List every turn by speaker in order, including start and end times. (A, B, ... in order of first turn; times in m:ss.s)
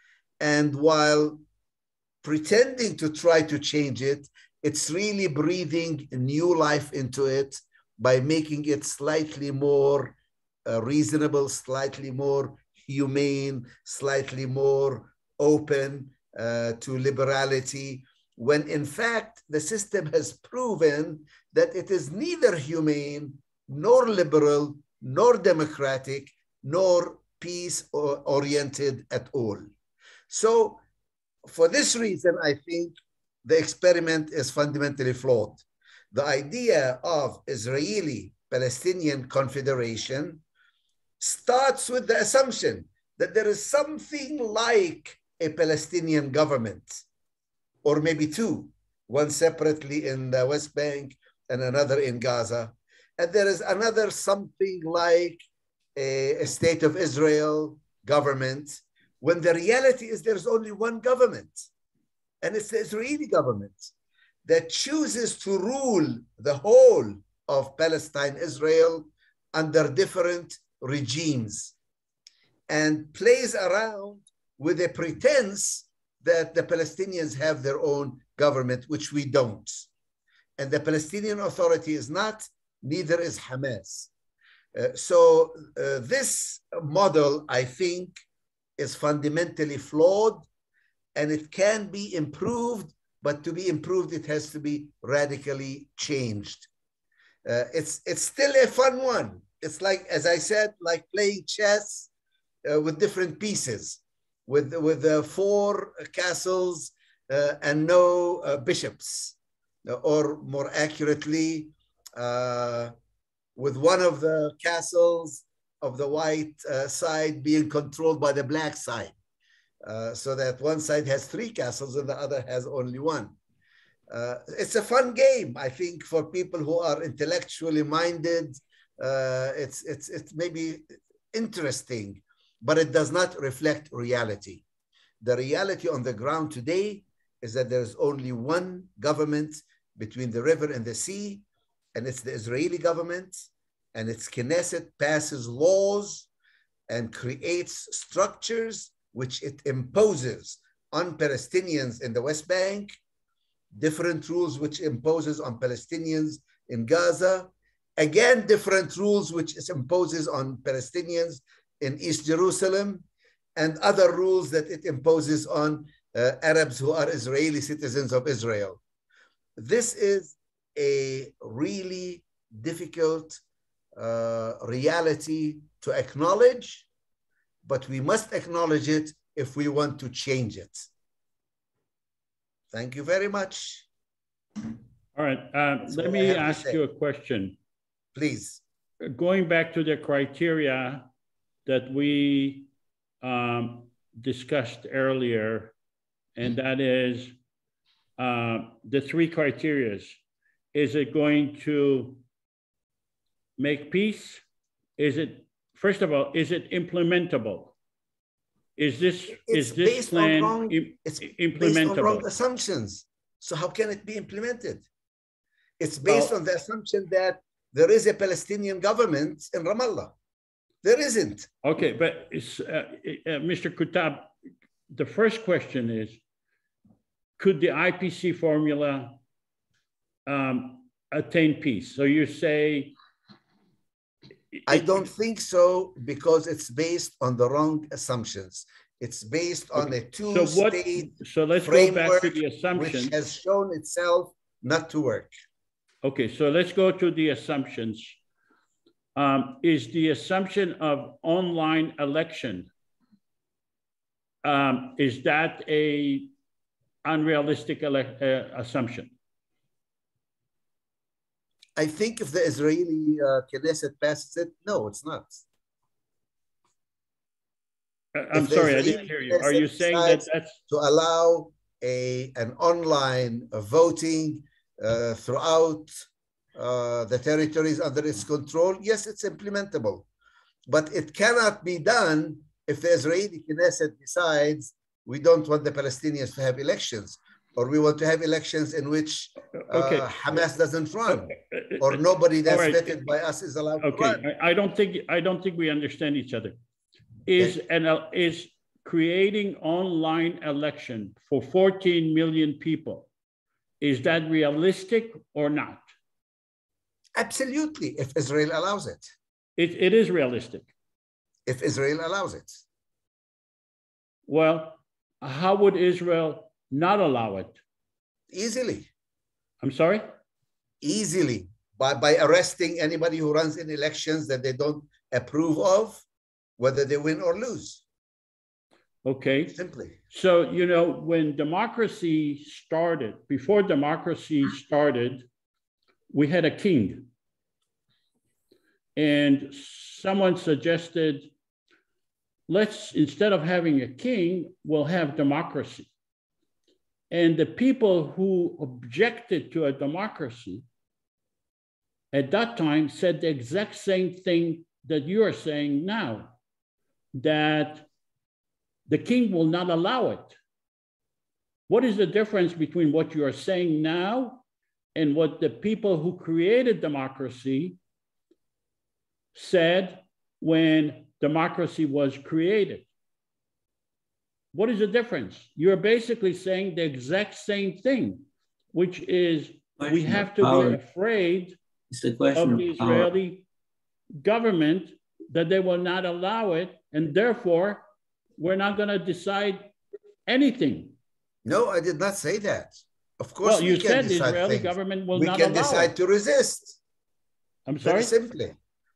0:00.4-0:01.4 A
0:02.2-0:10.1 A
0:10.6-0:29.7 A
0:30.3-0:30.8 A
0:31.4-0:40.4 A
0:41.2-0:47.0 A
0:47.8-0:55.4 A
0:56.0-1:01.7 A
1:02.4-1:03.9 A
1:04.4-1:11.7 A
1:12.7-1:19.9 A
1:20.6-1:24.1 A
1:24.7-1:28.2 A
1:28.8-1:30.4 A
1:31.1-1:36.7 A
1:37.4-1:42.1 A
1:42.6-1:52.9 A
1:53.6-1:59.1 A
1:59.8-2:03.3 A
2:04.1-2:14.6 A
2:15.2-2:26.3 A
2:26.9-2:33.0 A
2:33.7-2:43.0 A
2:43.6-2:48.8 A
2:49.6-2:53.4 A
2:54.0-2:56.8 A
2:57.6-3:00.9 A
3:02.7-3:03.8 A
3:05.1-3:07.6 B
3:05.8-3:06.8 A
3:08.1-3:08.6 A
3:09.0-3:11.0 B
3:11.6-3:12.7 B
3:13.2-3:15.7 B
3:16.4-3:17.3 B
3:18.2-3:20.2 B
3:20.7-3:22.2 B
3:23.6-3:24.4 B
3:25.0-3:27.7 B
3:28.8-3:32.2 B
3:29.4-3:34.8 A
3:35.8-3:40.1 A
3:36.0-3:36.3 B
3:40.8-3:41.5 A
3:41.6-3:44.3 B
3:44.9-3:46.2 B
3:47.4-3:49.2 B
3:50.2-3:52.9 B
3:54.5-3:55.1 B
3:54.7-4:05.3 A
3:59.8-4:03.1 B
4:06.0-4:08.2 B
4:09.2-4:12.7 B
4:14.4-4:16.3 B
4:17.0-4:19.1 B
4:21.8-4:25.4 A
4:28.1-4:30.6 B
4:28.3-4:36.0 A
4:36.5-4:40.0 A
4:40.6-4:54.2 A
4:49.6-4:50.5 B
4:51.1-4:53.0 B
4:53.8-4:56.6 B
4:57.3-5:03.1 B
5:03.8-5:05.9 B
5:07.2-5:09.1 A
5:09.6-5:10.7 B
5:11.4-5:12.6 A
5:14.3-5:17.6 B
5:18.3-5:18.9 A
5:19.6-5:20.1 B
5:20.8-5:26.0 A
5:26.6-5:27.8 A
5:29.0-5:29.6 B
5:29.5-5:30.0 A
5:30.1-5:35.2 B
5:36.1-5:37.1 B
5:39.0-5:41.3 B
5:42.5-5:45.9 B
5:47.1-5:50.6 B
5:52.1-5:56.3 B
5:57.1-5:57.9 B
5:58.9-6:00.4 B
6:01.7-6:04.4 B
6:04.9-6:07.8 B
6:09.3-6:12.9 B
6:14.5-6:21.6 B
6:19.8-6:20.8 C
6:21.9-6:23.1 C
6:22.3-6:23.4 B
6:24.2-6:27.8 B
6:28.4-6:29.7 B
6:30.3-6:30.9 B
6:31.4-6:36.8 A
6:33.4-6:35.9 B
6:37.6-6:38.1 B
6:37.8-6:38.6 A